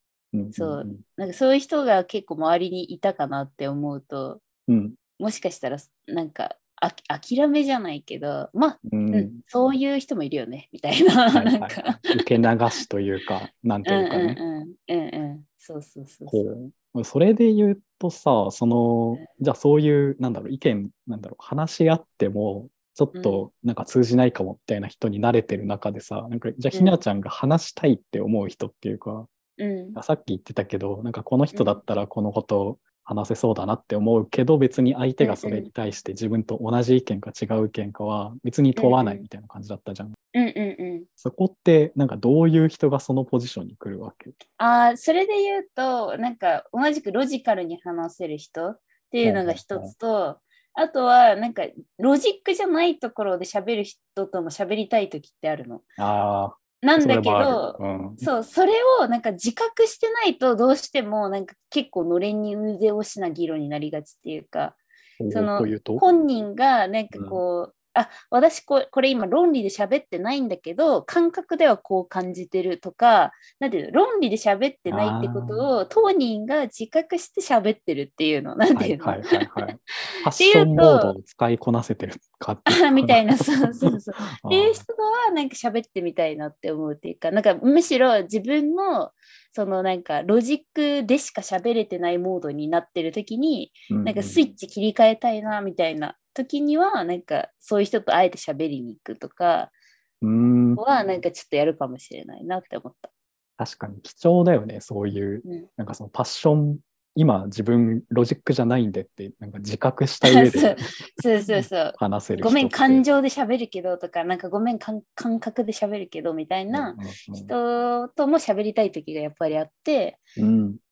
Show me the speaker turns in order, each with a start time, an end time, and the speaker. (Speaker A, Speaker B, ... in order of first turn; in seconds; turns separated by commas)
Speaker A: 0.3-1.0, Speaker B: 0.5-4.4, Speaker A: 4.7-5.0, Speaker B: 5.2-12.2, Speaker A: 8.8-9.4, Speaker A: 11.3-14.4, Speaker B: 13.8-16.5, Speaker A: 16.3-29.3, Speaker B: 23.1-23.5, Speaker B: 26.7-27.0, Speaker B: 29.6-30.0, Speaker A: 29.9-40.1, Speaker B: 31.5-31.8, Speaker B: 35.2-35.7, Speaker B: 38.8-39.2, Speaker B: 40.3-41.1, Speaker A: 41.2-44.4, Speaker B: 44.6-55.8, Speaker A: 49.2-49.9, Speaker A: 56.0-58.3, Speaker B: 56.8-64.8, Speaker A: 65.2-66.0, Speaker B: 65.3-79.4, Speaker A: 67.1-67.4, Speaker A: 74.9-75.7, Speaker A: 78.7-84.8, Speaker B: 80.3-81.1, Speaker B: 82.7-99.7, Speaker A: 93.9-94.4, Speaker A: 100.2-100.8, Speaker B: 100.8-103.1, Speaker A: 103.6-110.8, Speaker B: 110.2-120.2, Speaker A: 111.6-113.0, Speaker A: 116.7-117.5, Speaker A: 120.3-120.8